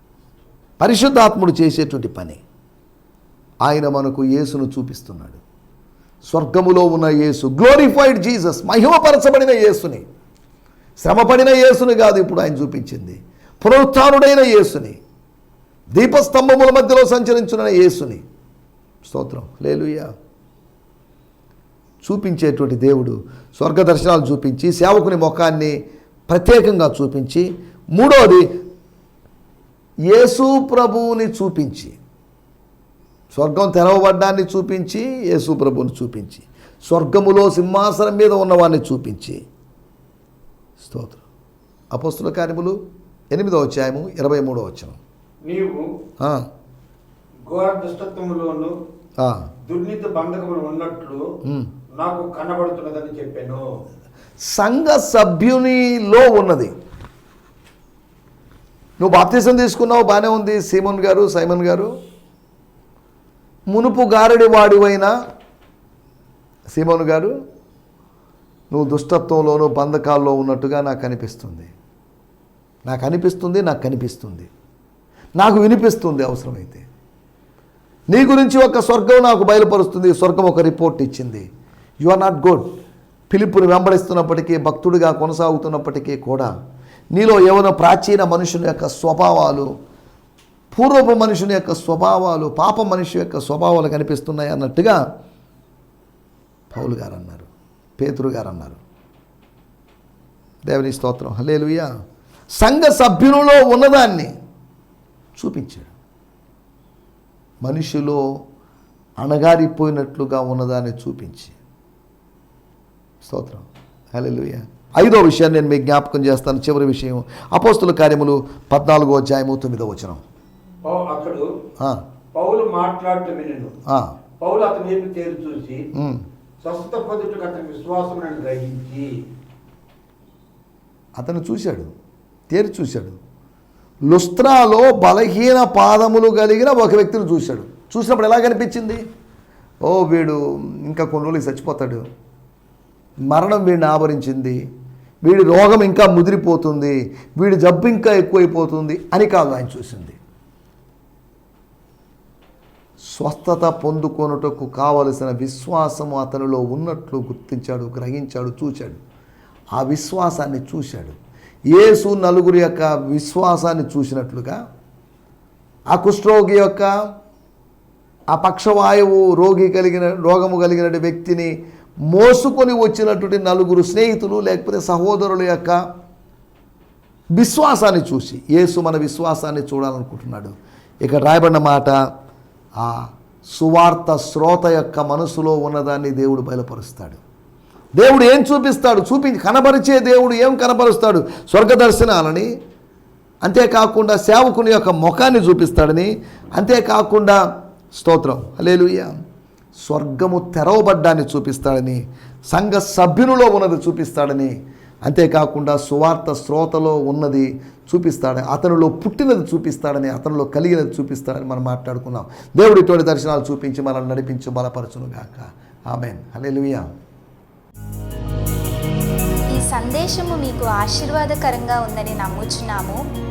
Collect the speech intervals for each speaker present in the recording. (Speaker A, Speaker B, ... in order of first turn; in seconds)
Speaker A: 0.8-2.4, 3.6-5.4, 6.2-10.1, 11.0-15.0, 15.9-18.2, 19.0-20.1, 22.0-25.8, 26.3-28.5, 30.1-32.0, 33.3-39.4, 40.8-41.2, 41.9-42.8, 43.3-45.0, 46.2-46.5, 49.2-49.5, 54.4-56.7, 59.0-61.9, 63.7-65.1, 66.7-67.3, 68.7-71.7, 72.8-74.5, 75.4-76.8, 78.1-81.5, 82.0-82.8, 83.3-86.5, 87.1-89.7, 90.7-95.0, 96.7-98.8, 100.6-101.9, 102.5-104.3, 105.4-105.9, 107.6-108.2, 109.2-111.5, 113.2-120.2, 123.9-124.1, 125.9-126.2, 131.2-131.9, 132.5-133.2, 134.1-139.0, 139.8-142.1, 143.3-144.6, 145.2-150.2, 153.0-159.0, 159.7-161.2, 161.7-164.6, 165.9-166.9, 168.3-175.8, 177.3-182.0, 182.8-187.2, 188.0-192.5, 193.4-199.1, 199.8-216.9
Speaker B: 45.5-45.8, 47.5-48.7, 49.7-51.2, 52.0-53.6, 120.8-121.5, 122.3-123.7, 124.4-125.9, 126.6-129.1
Speaker C: 219.5-223.0